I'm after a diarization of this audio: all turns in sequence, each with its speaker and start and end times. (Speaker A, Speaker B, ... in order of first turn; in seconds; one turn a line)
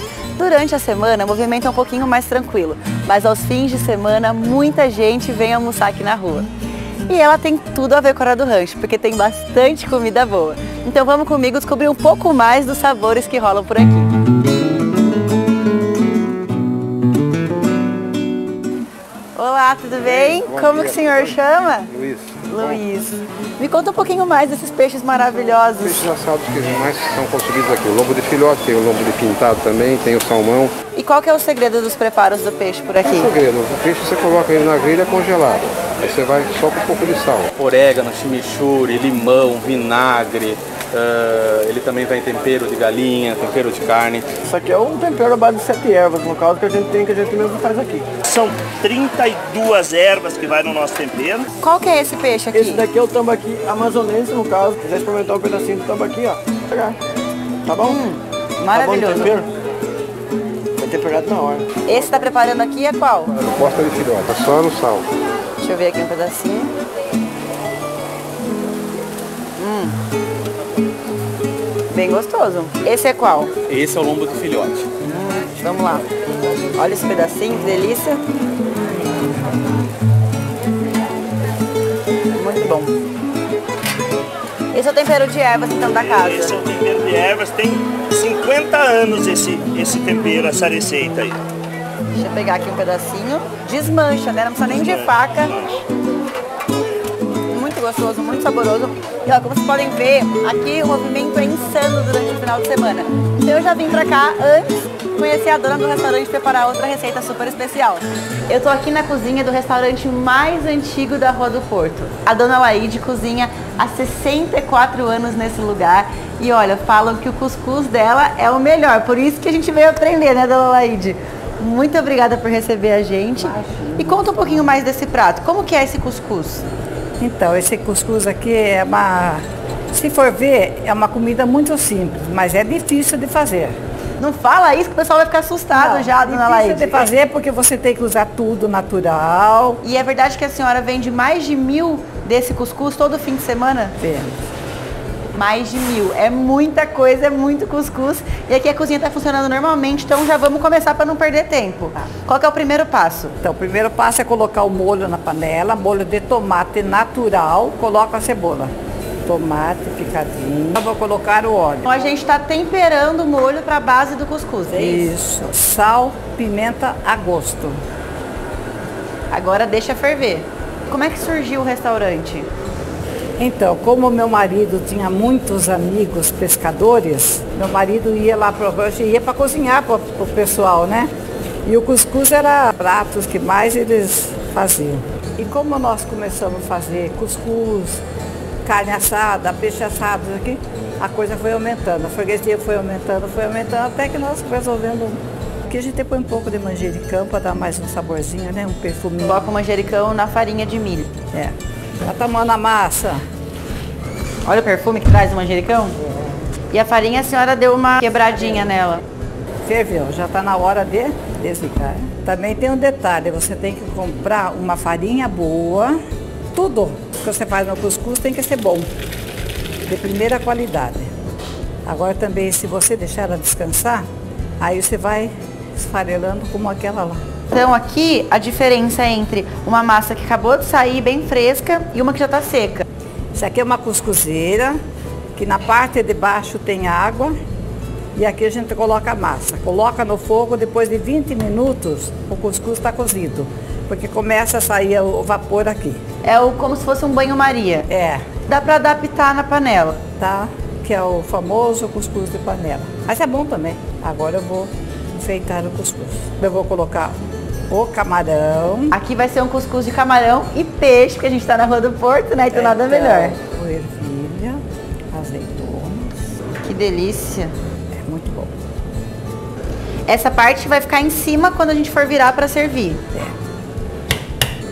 Speaker A: 0.4-6.5
Speaker A: 7.1-14.1
Speaker A: 19.4-21.9
Speaker B: 20.1-22.8
Speaker A: 22.5-26.1
Speaker B: 25.8-30.7
Speaker A: 30.9-33.3
Speaker B: 33.0-37.5
Speaker C: 37.5-44.3
Speaker D: 44.4-48.1
Speaker E: 48.2-51.5
Speaker A: 51.6-52.8
Speaker D: 52.5-57.0
Speaker D: 57.6-58.0
Speaker A: 57.8-59.4
Speaker D: 58.7-59.5
Speaker D: 60.8-61.7
Speaker A: 61.8-63.3
Speaker B: 63.3-65.1
Speaker A: 65.6-66.7
Speaker A: 69.6-70.0
Speaker A: 71.9-73.5
Speaker C: 73.7-74.9
Speaker A: 75.0-76.1
Speaker A: 76.8-78.2
Speaker A: 82.3-82.9
Speaker A: 84.7-86.6
Speaker E: 85.8-91.4
Speaker A: 92.1-95.6
Speaker E: 94.6-95.8
Speaker A: 97.5-126.7
Speaker F: 123.5-124.8
Speaker F: 127.2-133.8
Speaker A: 134.2-137.1
Speaker F: 135.7-139.8
Speaker A: 139.8-144.0
Speaker F: 144.0-144.4
Speaker A: 145.3-153.4
Speaker F: 153.4-158.7
Speaker F: 159.2-161.9
Speaker A: 161.8-165.1
Speaker F: 164.7-167.8
Speaker A: 169.3-172.5
Speaker F: 173.4-181.1
Speaker F: 181.7-188.0
Speaker F: 188.6-199.5
Speaker A: 199.2-201.1
Speaker F: 201.3-203.2
Speaker A: 204.4-206.0
Speaker A: 206.7-209.0
Speaker F: 209.6-216.0
Speaker F: 216.5-218.9
Speaker F: 219.8-221.1
Speaker F: 221.8-224.1
Speaker F: 224.6-227.2
Speaker A: 227.5-232.8
Speaker F: 233.3-234.8
Speaker F: 235.3-237.3
Speaker F: 238.1-246.0
Speaker A: 246.2-247.9
Speaker F: 247.9-248.2
Speaker A: 248.4-250.0
Speaker F: 250.2-257.2
Speaker F: 257.7-258.9
Speaker A: 258.9-263.4
Speaker F: 262.5-266.2
Speaker A: 266.6-267.5
Speaker F: 267.9-268.5
Speaker A: 270.1-273.0